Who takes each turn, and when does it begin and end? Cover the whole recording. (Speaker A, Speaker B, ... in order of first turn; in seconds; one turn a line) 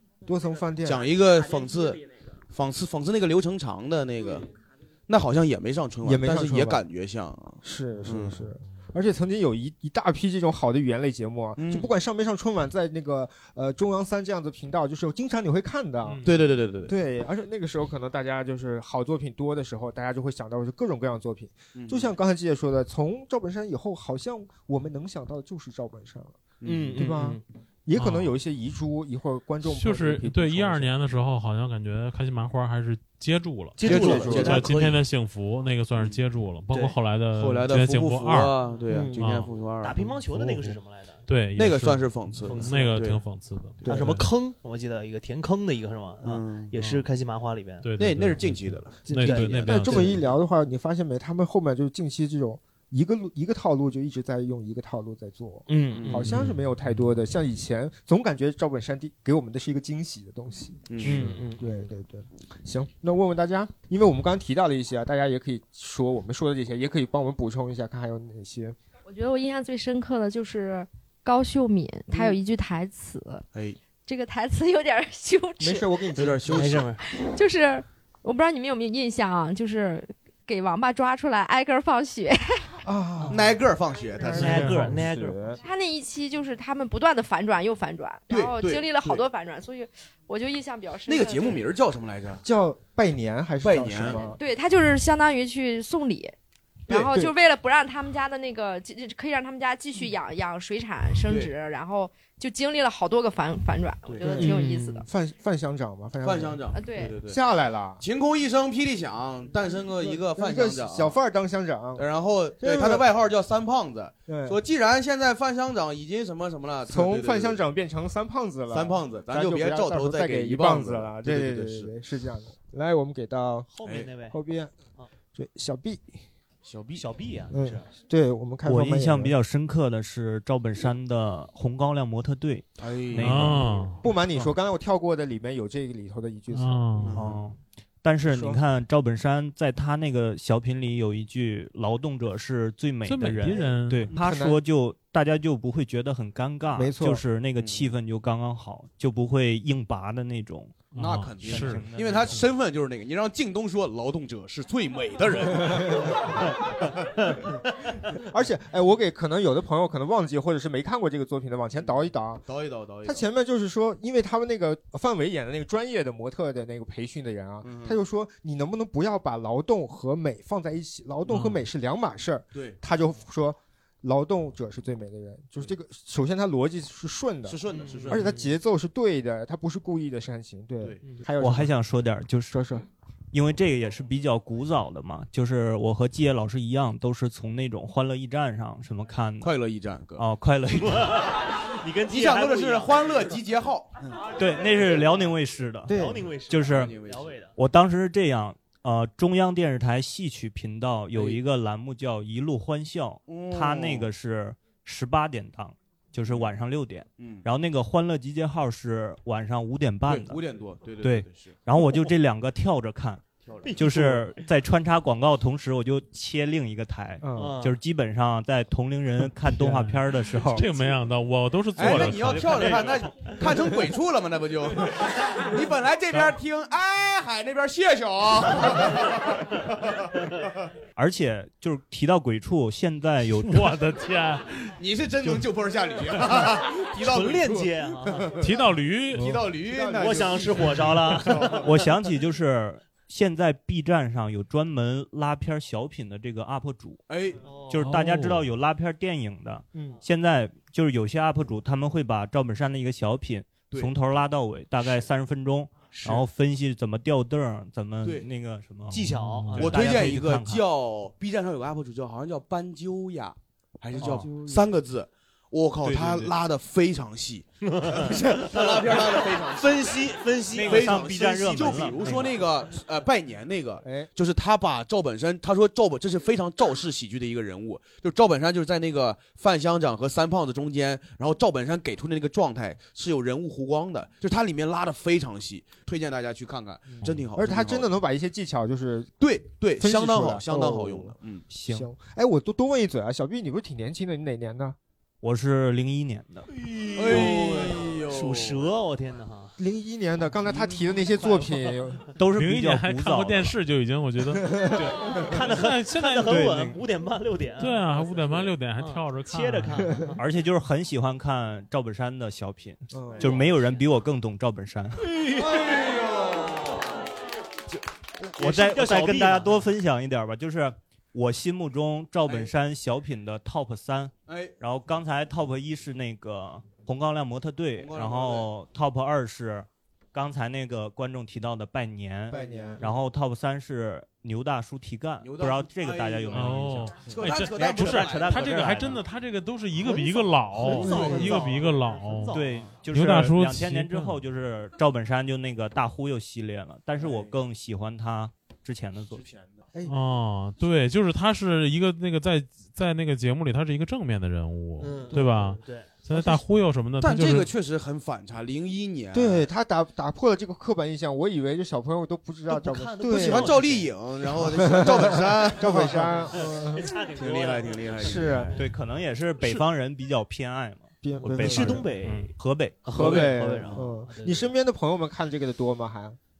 Speaker A: 0.2-1.1
Speaker B: 0.8-4.5
Speaker B: 5.1-8.5
Speaker A: 6.0-6.8
Speaker A: 7.6-16.2
Speaker B: 11.6-11.9
Speaker B: 16.2-16.9
Speaker A: 16.9-26.4
Speaker B: 21.7-22.1
Speaker B: 26.6-27.0
Speaker C: 26.6-27.4
Speaker A: 26.9-30.9
Speaker D: 27.9-28.3
Speaker D: 29.7-38.5
Speaker C: 33.8-34.8
Speaker B: 33.8-35.0
Speaker A: 33.8-34.6
Speaker B: 37.3-40.0
Speaker A: 38.9-39.2
Speaker D: 39.1-39.5
Speaker C: 39.8-41.2
Speaker D: 40.3-40.7
Speaker D: 41.3-44.2
Speaker B: 41.5-43.2
Speaker C: 42.5-42.8
Speaker A: 43.8-44.1
Speaker C: 43.9-47.8
Speaker B: 46.2-46.7
Speaker D: 46.8-47.0
Speaker D: 47.8-50.2
Speaker B: 48.0-50.1
Speaker A: 49.1-68.8
Speaker C: 49.1-50.1
Speaker C: 55.7-56.2
Speaker B: 56.0-56.2
Speaker D: 56.2-56.6
Speaker B: 60.9-61.3
Speaker C: 61.0-61.6
Speaker E: 69.0-73.5
Speaker E: 74.0-75.9
Speaker A: 75.6-76.8
Speaker B: 76.1-76.8
Speaker C: 76.5-77.0
Speaker E: 77.0-82.8
Speaker A: 82.8-83.5
Speaker B: 83.3-84.8
Speaker A: 84.2-85.6
Speaker C: 84.3-85.4
Speaker D: 84.4-84.8
Speaker E: 85.6-91.7
Speaker B: 88.3-89.2
Speaker B: 91.0-92.4
Speaker A: 92.4-94.4
Speaker B: 93.6-94.2
Speaker E: 94.2-96.3
Speaker A: 96.9-97.3
Speaker E: 96.9-105.0
Speaker B: 101.2-101.5
Speaker A: 104.2-106.6
Speaker C: 104.3-105.0
Speaker B: 106.2-107.4
Speaker E: 106.7-107.1
Speaker A: 107.2-108.0
Speaker B: 108.0-111.2
Speaker A: 110.0-112.0
Speaker B: 112.0-117.6
Speaker A: 112.6-113.0
Speaker A: 114.3-114.6
Speaker A: 116.8-123.7
Speaker B: 118.7-121.9
Speaker C: 123.7-124.3
Speaker A: 124.2-124.7
Speaker A: 125.3-126.1
Speaker B: 126.6-127.0
Speaker C: 127.0-127.8
Speaker A: 127.5-129.3
Speaker F: 128.6-133.9
Speaker B: 132.8-133.6
Speaker D: 133.1-134.0
Speaker A: 134.0-137.0
Speaker D: 136.5-137.2
Speaker B: 137.0-137.4
Speaker F: 137.2-150.8
Speaker A: 138.3-138.6
Speaker D: 143.0-144.1
Speaker A: 143.5-144.6
Speaker A: 146.7-147.2
Speaker B: 147.6-147.9
Speaker D: 150.9-152.4
Speaker B: 150.9-157.3
Speaker F: 151.4-152.4
Speaker A: 155.6-156.2
Speaker A: 158.1-162.4
Speaker B: 161.8-163.2
Speaker A: 163.0-181.7
Speaker B: 167.6-168.0
Speaker B: 177.5-178.3
Speaker C: 177.7-178.5
Speaker F: 181.4-182.5
Speaker A: 182.5-182.8
Speaker F: 183.3-189.5
Speaker B: 189.4-190.2
Speaker F: 190.2-191.1
Speaker C: 190.8-193.3
Speaker B: 192.1-194.2
Speaker F: 194.4-195.9
Speaker A: 195.9-196.3
Speaker C: 195.9-197.5
Speaker F: 196.5-196.9
Speaker B: 196.5-197.3
Speaker F: 197.6-210.4
Speaker B: 203.3-204.1
Speaker B: 206.2-206.5
Speaker B: 207.2-207.4
Speaker B: 210.1-211.6
Speaker F: 211.0-220.7
Speaker B: 213.4-213.9
Speaker C: 213.6-214.3
Speaker A: 217.2-217.6
Speaker C: 217.3-217.7
Speaker D: 219.5-223.3
Speaker B: 221.8-230.1
Speaker F: 230.9-233.8
Speaker D: 233.4-234.7
Speaker B: 234.8-238.5
Speaker C: 236.9-238.3
Speaker D: 238.4-239.3
Speaker B: 239.1-241.6
Speaker A: 239.1-241.5
Speaker C: 239.9-241.6
Speaker F: 241.6-247.0
Speaker B: 247.1-247.4
Speaker C: 247.4-247.9
Speaker F: 247.7-260.6
Speaker D: 247.8-248.4
Speaker A: 249.7-250.0
Speaker C: 258.9-260.2
Speaker D: 259.1-259.9
Speaker B: 259.6-287.9
Speaker A: 264.0-264.7
Speaker C: 267.6-271.1
Speaker F: 270.6-272.3
Speaker C: 271.7-272.3
Speaker A: 273.8-274.1
Speaker A: 287.3-289.1
Speaker B: 289.2-291.4
Speaker A: 289.8-291.1
Speaker F: 291.5-291.9
Speaker A: 291.6-294.8
Speaker F: 295.2-296.5
Speaker C: 296.5-299.5
Speaker B: 296.9-298.7
Speaker A: 299.6-302.1
Speaker C: 301.0-301.8
Speaker F: 302.2-303.5
Speaker D: 302.3-306.7
Speaker A: 304.2-305.3
Speaker C: 305.2-307.9
Speaker A: 306.2-306.8
Speaker D: 307.6-310.0
Speaker B: 308.2-308.5
Speaker C: 308.8-310.2
Speaker F: 310.1-315.1
Speaker A: 312.9-313.3
Speaker B: 315.3-316.7
Speaker F: 318.4-336.9
Speaker C: 318.4-319.6
Speaker B: 324.3-324.5
Speaker B: 327.8-328.5
Speaker A: 332.3-332.8
Speaker B: 332.3-332.8
Speaker B: 335.2-339.0
Speaker D: 336.3-342.4
Speaker F: 337.5-339.0
Speaker A: 340.5-341.6
Speaker C: 340.6-342.8
Speaker B: 340.8-341.5
Speaker F: 342.3-349.2
Speaker D: 342.9-344.2
Speaker B: 347.0-347.3
Speaker B: 349.1-349.5
Speaker D: 349.9-357.5
Speaker C: 354.8-355.9
Speaker A: 355.1-355.5
Speaker A: 356.1-356.4
Speaker B: 357.0-359.4
Speaker A: 359.1-363.6
Speaker C: 362.5-363.9
Speaker B: 363.1-366.2
Speaker A: 364.4-366.9
Speaker C: 366.3-368.5
Speaker B: 367.2-368.5
Speaker A: 368.0-368.6
Speaker F: 368.6-372.8
Speaker A: 371.0-371.9
Speaker C: 371.2-372.3
Speaker C: 372.8-374.5
Speaker A: 372.9-376.2